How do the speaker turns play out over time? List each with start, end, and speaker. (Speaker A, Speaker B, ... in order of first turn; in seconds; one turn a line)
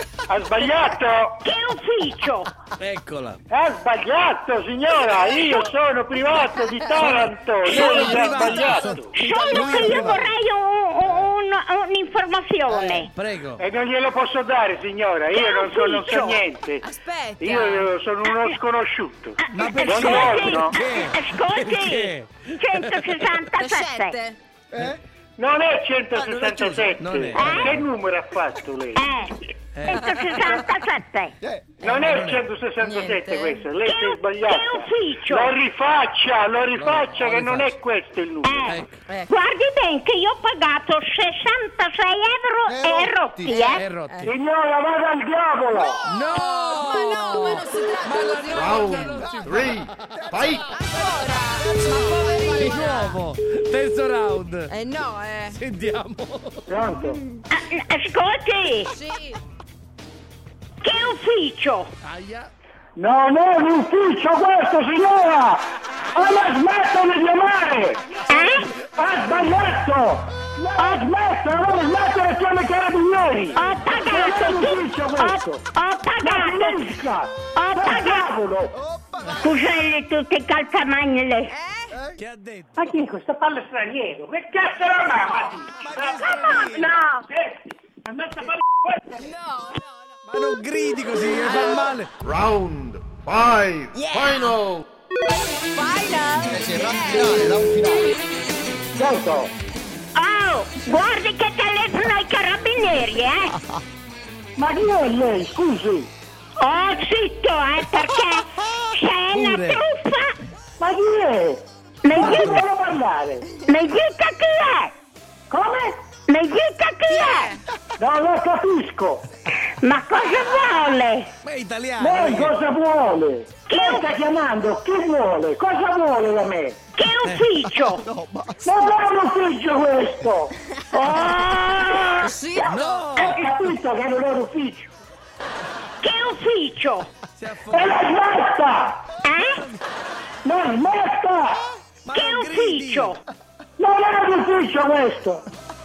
Speaker A: 0.3-1.4
Speaker B: 1.4-2.5
Speaker C: 2.8-3.4
Speaker A: 3.5-9.1
Speaker D: 6.8-7.1
Speaker C: 7.0-10.3
Speaker B: 8.7-13.1
Speaker D: 9.2-9.8
Speaker C: 13.1-13.6
Speaker A: 13.6-16.8
Speaker B: 15.3-16.4
Speaker D: 16.8-17.9
Speaker A: 17.4-20.7
Speaker B: 18.2-18.6
Speaker B: 19.5-24.2
Speaker C: 19.5-23.4
Speaker D: 23.6-24.4
Speaker E: 24.7-25.0
Speaker A: 25.4-29.1
Speaker E: 26.1-26.9
Speaker C: 26.9-27.8
Speaker B: 27.4-27.8
Speaker B: 29.0-31.3
Speaker C: 29.8-30.2
Speaker E: 31.4-31.7
Speaker A: 31.8-38.8
Speaker C: 31.8-32.5
Speaker D: 32.8-33.7
Speaker B: 33.9-35.5
Speaker C: 36.7-37.8
Speaker B: 38.4-43.9
Speaker C: 38.6-39.0
Speaker D: 39.1-39.3
Speaker E: 42.7-43.7
Speaker C: 43.7-44.3
Speaker D: 44.1-44.3
Speaker A: 44.3-46.0
Speaker C: 46.0-50.1
Speaker D: 46.1-49.2
Speaker F: 48.5-50.7
Speaker E: 49.1-53.1
Speaker D: 50.7-53.2
Speaker C: 51.9-54.7
Speaker D: 54.7-55.6
Speaker C: 55.5-56.7
Speaker A: 56.7-57.2
Speaker B: 57.5-58.9
Speaker D: 58.9-59.4
Speaker B: 60.8-61.9
Speaker C: 62.0-62.5
Speaker A: 63.0-65.6
Speaker A: 66.2-68.0
Speaker B: 68.3-68.7
Speaker A: 69.0-75.6
Speaker B: 70.8-71.0
Speaker B: 73.6-76.9
Speaker A: 76.3-78.7
Speaker B: 77.5-78.3
Speaker E: 78.7-79.6
Speaker B: 79.4-81.5
Speaker D: 81.5-82.0
Speaker E: 81.9-82.2
Speaker C: 82.2-82.8
Speaker A: 82.8-89.2
Speaker C: 85.8-87.0
Speaker B: 86.4-87.2
Speaker D: 89.2-90.4
Speaker C: 90.3-92.1
Speaker D: 91.4-91.9
Speaker F: 92.2-94.8
Speaker D: 93.9-94.6
Speaker D: 95.3-97.6
Speaker E: 96.4-98.2
Speaker A: 99.0-99.5
Speaker B: 100.2-103.6
Speaker A: 104.6-106.1
Speaker B: 106.6-110.3
Speaker C: 109.3-109.8
Speaker A: 110.8-111.6
Speaker B: 112.0-112.6
Speaker C: 112.2-112.7
Speaker A: 112.2-113.5
Speaker B: 113.6-114.9
Speaker A: 115.5-115.9
Speaker B: 116.3-117.5
Speaker D: 117.1-117.6
Speaker A: 118.0-119.2
Speaker B: 119.8-121.3
Speaker C: 121.4-122.5
Speaker A: 122.0-126.8
Speaker B: 123.7-124.1
Speaker B: 127.0-128.0
Speaker E: 127.8-128.8
Speaker A: 128.7-130.5
Speaker B: 130.9-132.4
Speaker D: 132.0-133.4
Speaker C: 132.6-133.8
Speaker A: 133.3-134.9
Speaker B: 136.0-137.1
Speaker C: 137.4-138.1
Speaker A: 137.7-139.0
Speaker B: 139.2-139.6
Speaker C: 139.4-139.8
Speaker A: 140.4-141.6
Speaker C: 142.0-143.2
Speaker B: 142.1-143.2
Speaker A: 143.8-145.4